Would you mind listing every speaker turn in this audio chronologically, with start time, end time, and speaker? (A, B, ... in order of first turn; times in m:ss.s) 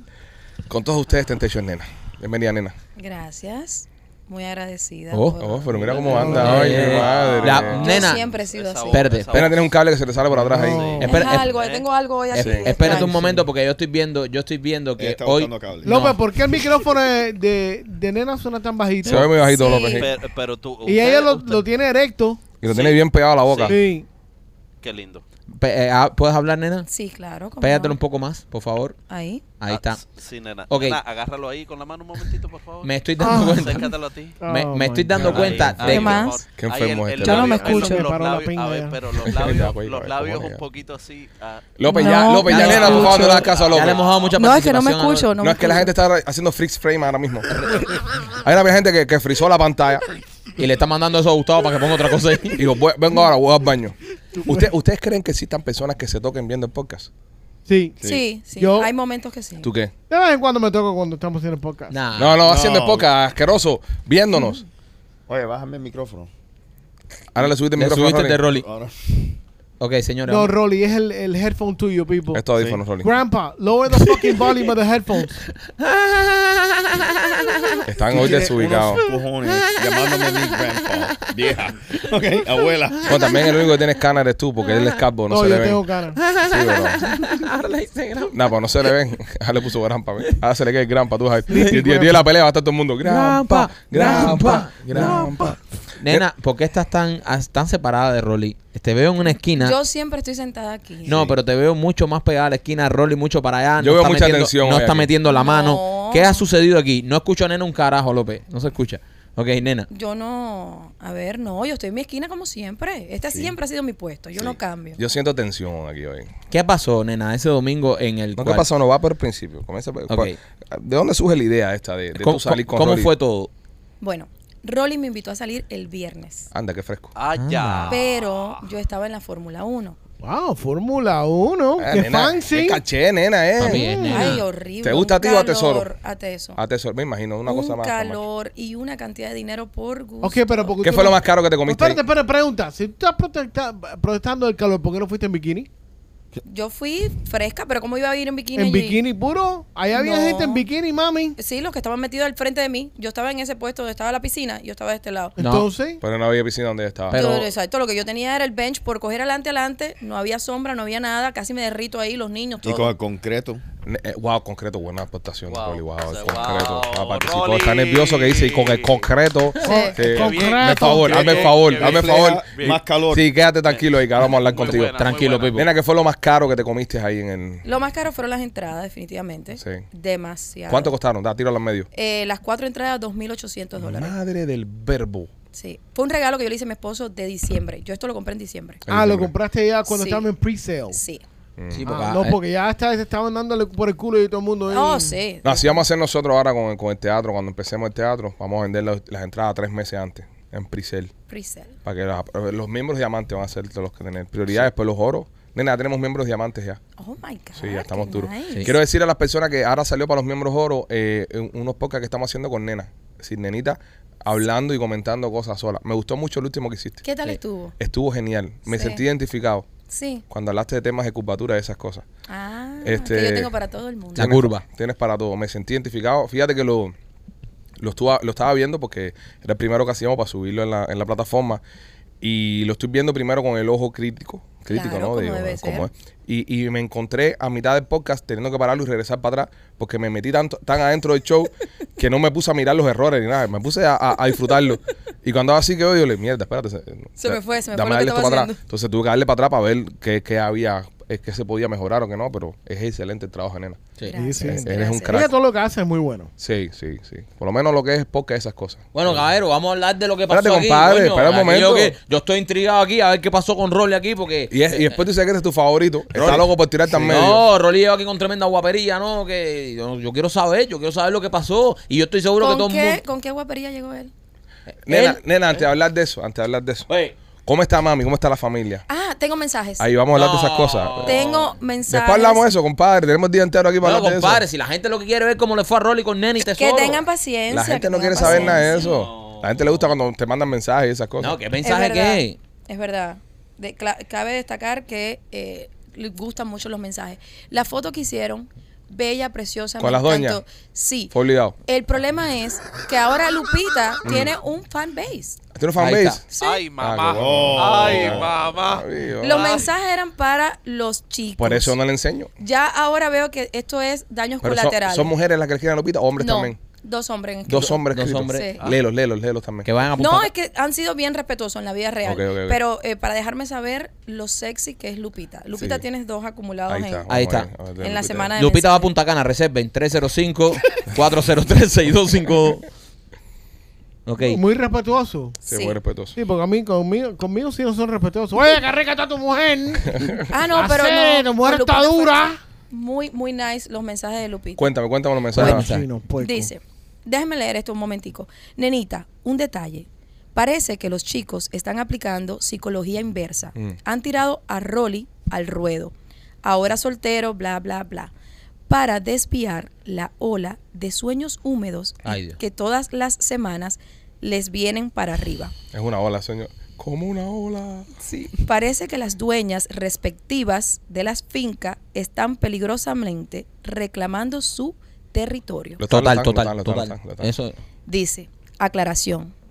0:00.7-0:02.7 A
0:03.0-0:05.7 B
0:05.1-0:05.4 C
0:05.4-0:08.1 A
0:05.9-0:09.6 D
0:05.9-0:06.2 E
0:06.1-0:06.6 F
0:06.2-0:08.2 C
0:07.8-0:09.1 B
0:08.9-0:09.5 C
0:09.3-0:11.0 A
0:10.4-0:11.3 F
0:11.0-0:11.6 C
0:11.0-0:13.2 B
0:11.4-0:11.8 D
0:12.3-0:16.2 C
0:12.4-0:12.8 A
0:13.1-0:13.4 F
0:15.0-0:16.1 E
0:15.8-0:19.3 F
0:19.0-0:20.1 A
0:19.4-0:20.1 B
0:19.7-0:21.6 D
0:20.9-0:22.4 F
0:22.6-0:23.8 A
0:22.7-0:23.8 D
0:23.7-0:24.1 F
0:24.8-0:25.2 D
0:25.6-0:26.9 C
0:26.9-0:28.0 B
0:27.6-0:29.0 C
0:29.1-0:29.4 B
0:29.6-0:30.0 C
0:29.7-0:34.4 D
0:30.7-0:31.0 C
0:32.8-0:33.9 C
0:33.2-0:33.9 F
0:34.4-0:35.3 F
0:34.5-0:36.3 C
0:35.1-0:41.7 D
0:35.2-0:37.7 A
0:35.8-0:36.4 B
0:37.2-0:38.0 B
0:37.6-0:39.0 F
0:39.2-0:40.6 A
0:41.8-0:44.0 A
0:41.9-0:43.5 B
0:42.4-0:45.3 C
0:42.5-0:44.4 D
0:44.4-0:45.9 B
0:45.4-0:47.7 A
0:48.3-0:50.0 A
0:50.6-0:52.6 C
0:52.6-0:57.1 A
0:57.7-0:58.0 F
0:58.0-0:59.7 B
0:58.5-0:58.9 F
0:59.6-0:59.9 A
1:00.1-1:02.0 F
1:01.9-1:02.4 C
1:02.2-1:04.6 A
1:02.4-1:03.1 E
1:05.3-1:06.3 E
1:07.3-1:08.4 A
1:07.8-1:08.6 C
1:08.4-1:09.4 E
1:09.8-1:10.5 C
1:10.2-1:12.4 F
1:12.3-1:13.1 A
1:12.6-1:12.9 E
1:13.0-1:15.5 F
1:15.5-1:17.8 C
1:17.9-1:19.0 A
1:18.1-1:23.1 E
1:18.2-1:18.4 F
1:19.4-1:21.3 C
1:23.1-1:25.8 A
1:23.1-1:23.5 C
1:25.3-1:26.2 F
1:26.2-1:28.5 C
1:26.4-1:27.3 A
1:28.3-1:36.2 A
1:31.5-1:32.2 F
1:31.5-1:31.8 C
1:33.0-1:39.8 C
1:35.0-1:35.5 F
1:39.6-1:41.3 B
1:41.1-1:49.9 C
1:43.8-1:45.1 A
1:45.2-1:46.5 B
1:49.9-1:55.0 B
1:55.0-1:56.3 A
1:56.5-1:58.7 C
1:58.4-2:03.1 A
2:00.1-2:00.4 C
2:02.2-2:03.5 C
2:04.0-2:06.5 B
2:06.5-2:07.1 A
2:07.2-2:08.6 D
2:07.4-2:08.0 C
2:07.9-2:10.0 B
2:10.2-2:12.8 F
2:11.8-2:13.9 A
2:13.6-2:14.4 C
2:13.7-2:14.4 F
2:14.0-2:16.6 B
2:14.8-2:15.9 A
2:16.6-2:18.2 A
2:17.5-2:20.8 B
2:20.2-2:25.7 F
2:20.8-2:22.0 A
2:26.4-2:29.0 B
2:28.6-2:31.4 F
2:29.9-2:30.6 B
2:31.4-2:35.4 B
2:35.4-2:36.0 F
2:35.4-2:35.7 C
2:36.0-2:37.2 A
2:37.1-2:37.5 C
2:37.1-2:42.9 B
2:42.6-2:43.6 E
2:43.8-2:55.0 A
2:45.5-2:49.1 D
2:49.6-2:51.4 F
2:49.6-2:50.0 B
2:50.0-2:52.8 D
2:51.3-2:53.2 E
2:53.7-2:55.6 D
2:55.0-2:55.7 C
2:55.5-2:57.6 A
2:57.6-3:01.0 B
2:59.6-2:59.8 A
3:00.7-3:01.9 A
3:01.9-3:04.1 B
3:03.8-3:05.3 A
3:05.5-3:08.8 B
3:08.9-3:09.3 A
3:08.9-3:11.0 F
3:09.9-3:10.3 B
3:10.9-3:11.2 B
3:11.6-3:12.0 A
3:11.7-3:12.4 C
3:11.8-3:15.2 F
3:14.7-3:15.8 B
3:15.4-3:21.1 A
3:21.3-3:21.8 B
3:21.8-3:26.8 A
3:27.0-3:28.7 B
3:27.6-3:37.0 A
3:37.0-3:37.8 B
3:37.8-3:39.6 A
3:38.7-3:39.0 B
3:39.9-3:40.2 B
3:40.3-3:42.0 A
3:42.3-3:44.3 B
3:42.8-3:43.5 A
3:44.2-3:44.6 C
3:44.2-3:47.0 A
3:47.8-3:51.6 A
3:52.2-4:13.9 A
3:54.7-3:55.9 B
4:07.2-4:08.6 B
4:14.1-4:15.3 B
4:14.1-4:16.3 F
4:14.5-4:15.3 A
4:16.4-4:19.2 A
4:18.9-4:25.0 C
4:20.3-4:22.0 A
4:24.5-4:27.4 A
4:26.2-4:33.0 C
4:32.4-4:34.1 B
4:34.9-4:36.9 A
4:34.9-4:35.2 C
4:36.9-4:37.1 C
4:37.5-4:38.8 A
4:38.9-4:39.9 B
4:39.8-4:41.2 A
4:40.1-4:41.6 C
4:41.0-4:42.5 B
4:41.9-4:44.4 A
4:43.8-4:47.0 C
4:46.4-4:48.9 B
4:47.5-4:51.4 A
4:48.2-4:49.5 C
4:51.2-4:52.4 C
4:51.6-5:01.1 B
4:59.8-5:00.4 A
5:01.1-5:01.6 A
5:01.6-5:05.4 B
5:04.0-5:04.3 A
5:05.5-5:06.2 A
5:05.8-5:06.2 C
5:06.3-5:06.6 B
5:06.4-5:09.7 D
5:06.8-5:09.6 A
5:07.0-5:08.3 E
5:09.2-5:11.8 B
5:11.4-5:12.3 A
5:12.4-5:15.1 B
5:14.4-5:16.6 A
5:16.2-5:18.6 B
5:17.5-5:19.7 A
5:17.9-5:18.5 C
5:19.6-5:20.3 C
5:20.0-5:27.1 B
5:22.0-5:22.6 A
5:25.6-5:25.8 A
5:26.7-5:28.3 A
5:27.1-5:27.5 C
5:27.8-5:28.9 B
5:28.4-5:32.6 C
5:34.1-5:34.4 C
5:34.2-5:35.4 F
5:35.4-5:35.8 B
5:35.5-5:36.2 A
5:36.2-5:42.4 F
5:40.3-5:44.7 B
5:44.6-5:45.7 A
5:45.4-5:45.9 C
5:45.4-5:46.5 F
5:46.2-5:58.1 B
5:58.7-6:05.5 B
6:02.0-6:02.4 C
6:05.7-6:07.9 A
6:08.0-6:15.8 B
6:15.8-6:17.3 A
6:15.9-6:17.6 C
6:17.9-6:19.3 B